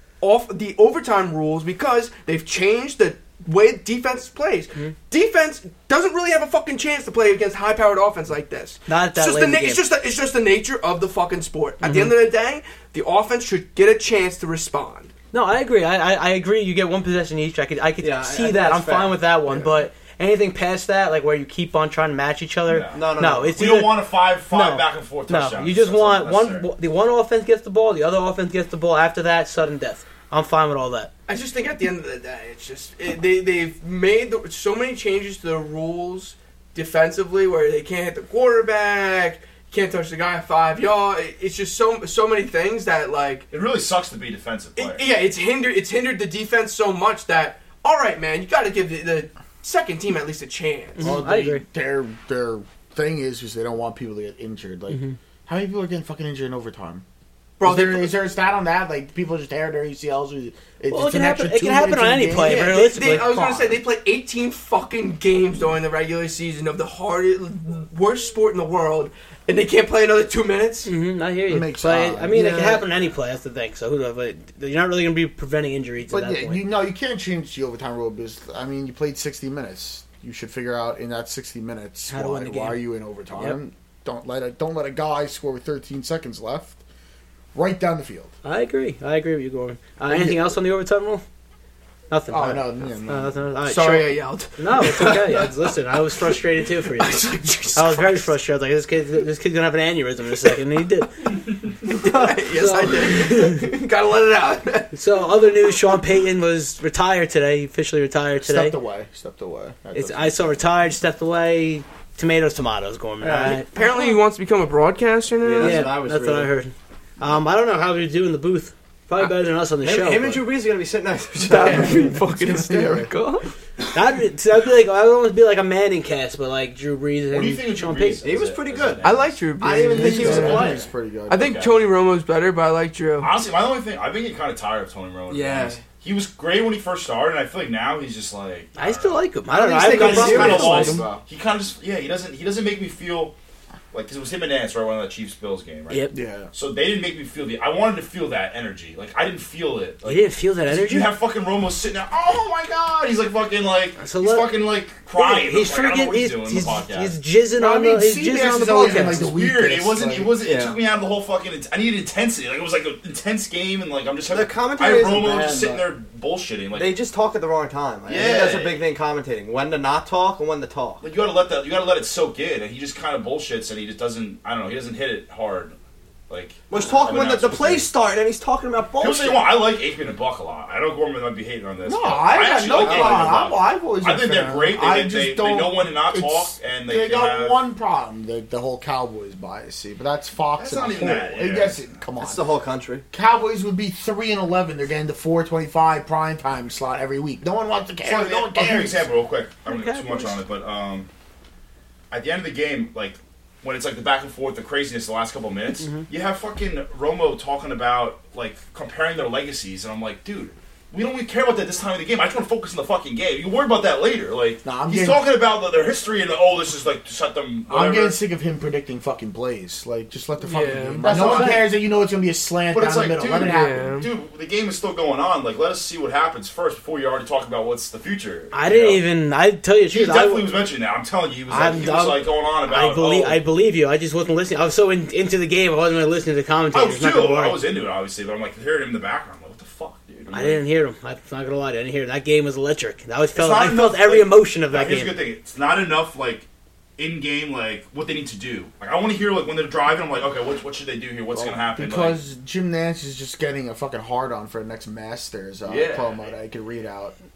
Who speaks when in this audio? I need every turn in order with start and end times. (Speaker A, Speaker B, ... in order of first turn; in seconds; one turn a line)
Speaker A: 0.2-15.1
Speaker B: 8.9-9.8
Speaker B: 11.8-12.2
Speaker B: 15.3-31.1
Speaker C: 18.0-19.7
Speaker D: 22.7-26.7
Speaker C: 22.9-23.7
Speaker A: 31.3-43.5
Speaker D: 43.5-45.1
Speaker A: 44.8-51.1
Speaker B: 51.0-51.6
Speaker E: 51.0-57.0
Speaker B: 54.9-55.2
Speaker A: 57.6-58.2
Speaker E: 57.6-63.8
Speaker B: 60.9-63.3
Speaker A: 62.4-70.9
Speaker B: 70.8-76.6
Speaker E: 71.5-72.9
Speaker E: 76.1-86.8
Speaker B: 82.1-82.8
Speaker E: 87.5-88.3
Speaker B: 88.4-91.2
Speaker E: 90.1-90.4
Speaker B: 92.1-101.3
Speaker E: 92.3-93.4
Speaker A: 93.7-96.4
Speaker A: 96.9-98.3
Speaker B: 101.8-103.7
Speaker A: 101.8-105.0
Speaker B: 104.9-108.8
Speaker E: 108.4-110.6
Speaker B: 109.9-113.7
Speaker C: 113.2-113.6
Speaker A: 113.4-115.9
Speaker C: 115.4-116.5
Speaker B: 115.6-120.4
Speaker C: 119.8-122.1
Speaker A: 121.4-123.5
Speaker E: 121.7-123.1
Speaker B: 123.9-128.3
Speaker D: 127.3-129.5
Speaker C: 128.2-130.8
Speaker A: 129.0-130.8
Speaker E: 129.6-131.6
Speaker D: 130.2-130.7
Speaker A: 131.3-133.3
Speaker D: 131.3-131.7
Speaker D: 133.2-143.3
Speaker C: 135.3-135.8
Speaker B: 138.8-141.0
Speaker C: 139.5-141.2
Speaker D: 143.9-157.2
Speaker E: 146.1-146.5
Speaker B: 150.0-151.1
Speaker B: 154.0-154.5
Speaker B: 155.1-159.3
Speaker E: 157.6-160.3
Speaker D: 158.8-166.9
Speaker C: 160.4-160.8
Speaker C: 164.3-165.8
Speaker C: 166.7-171.0
Speaker D: 168.1-168.8
Speaker D: 171.0-175.8
Speaker D: 176.3-177.9
Speaker C: 176.7-179.6
Speaker D: 179.0-187.6
Speaker E: 181.8-192.4
Speaker C: 182.7-183.4
Speaker D: 190.6-191.9
Speaker C: 192.2-193.0
Speaker E: 193.1-199.1
Speaker D: 198.0-201.1
Speaker B: 199.6-200.4
Speaker D: 202.1-218.2
Speaker B: 205.8-206.1
Speaker E: 214.6-215.2
Speaker E: 217.7-224.0
Speaker A: 220.4-221.2
Speaker D: 221.0-221.7
Speaker B: 221.1-221.6
Speaker D: 222.7-229.0
Speaker A: 223.4-224.1
Speaker B: 228.5-230.5
Speaker D: 229.9-233.4
Speaker B: 231.5-237.6
Speaker D: 236.7-240.6
Speaker B: 240.3-245.2
Speaker D: 243.3-246.4
Speaker D: 247.0-252.2
Speaker E: 251.3-257.1
Speaker D: 255.6-256.3